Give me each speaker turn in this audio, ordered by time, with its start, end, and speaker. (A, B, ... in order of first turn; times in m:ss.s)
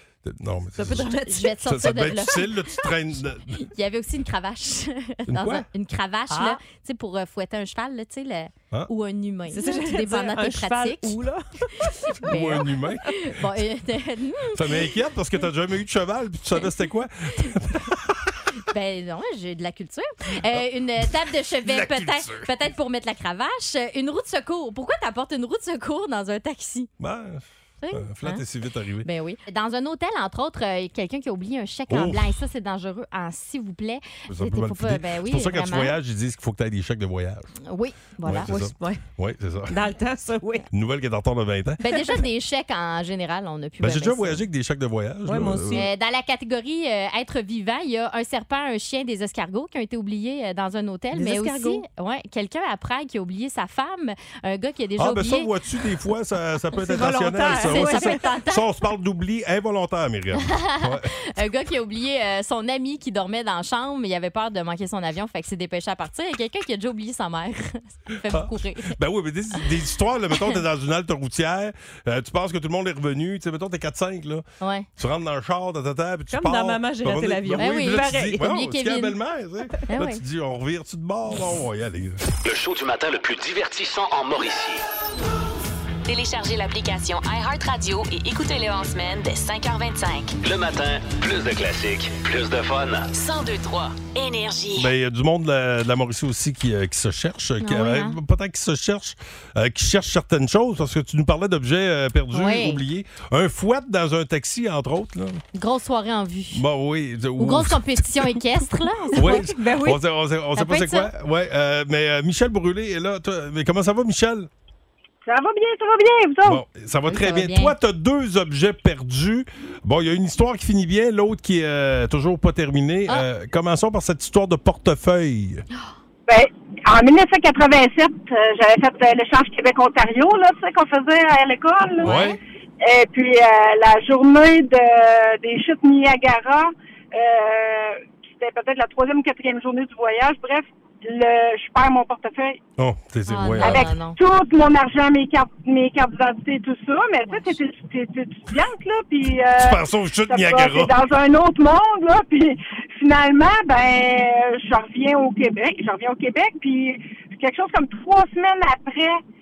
0:00.2-0:03.6 A
0:00.8-0:01.6 B
0:00.9-0:02.9 C
0:03.5-0:11.2 C
0:05.3-0:05.7 A
0:06.3-0:06.6 B
0:09.5-0:11.9 B
0:11.8-0:14.9 C
0:12.2-0:13.2 A
0:14.6-0:18.4 A
0:18.7-0:26.9 C
0:21.6-0:22.5 A
0:27.0-0:29.1 A
0:27.8-0:28.4 C
0:29.0-0:36.0 C
0:31.9-0:32.3 A
0:34.3-0:37.5 A
0:37.7-0:38.5 C
0:38.2-0:39.8 A
0:38.4-0:39.0 B
0:39.7-0:40.6 B
0:40.7-0:41.8 A
0:41.8-0:44.4 C
0:43.8-0:45.8 A
0:45.2-0:45.9 B
0:45.7-0:55.5 C
0:51.1-0:51.8 B
0:55.0-1:01.1 A
0:56.8-0:58.3 B
0:57.5-0:58.6 C
1:00.4-1:09.0 C
1:08.3-1:14.4 A
1:14.6-1:14.9 C
1:15.0-1:22.2 A
1:16.3-1:18.1 B
1:17.6-1:19.2 C
1:19.9-1:20.2 C
1:22.4-1:24.8 D
1:26.0-1:30.4 E
1:30.4-1:33.1 D
1:33.1-1:34.9 E
1:34.8-1:45.4 A
1:37.6-1:38.2 C
1:42.3-1:42.8 C
1:45.5-1:46.6 C
1:46.5-1:48.4 A
1:47.4-1:49.8 C
1:49.2-1:54.5 A
1:49.2-1:50.0 B
1:50.6-1:51.1 C
1:55.2-1:56.6 F
1:56.4-2:05.6 A
1:57.1-1:57.8 C
2:06.3-2:22.6 F
2:12.0-2:12.4 A
2:12.0-2:12.4 C
2:22.8-2:23.9 A
2:23.3-2:24.2 C
2:23.6-2:39.2 F
2:27.3-2:27.6 C
2:29.6-2:30.9 A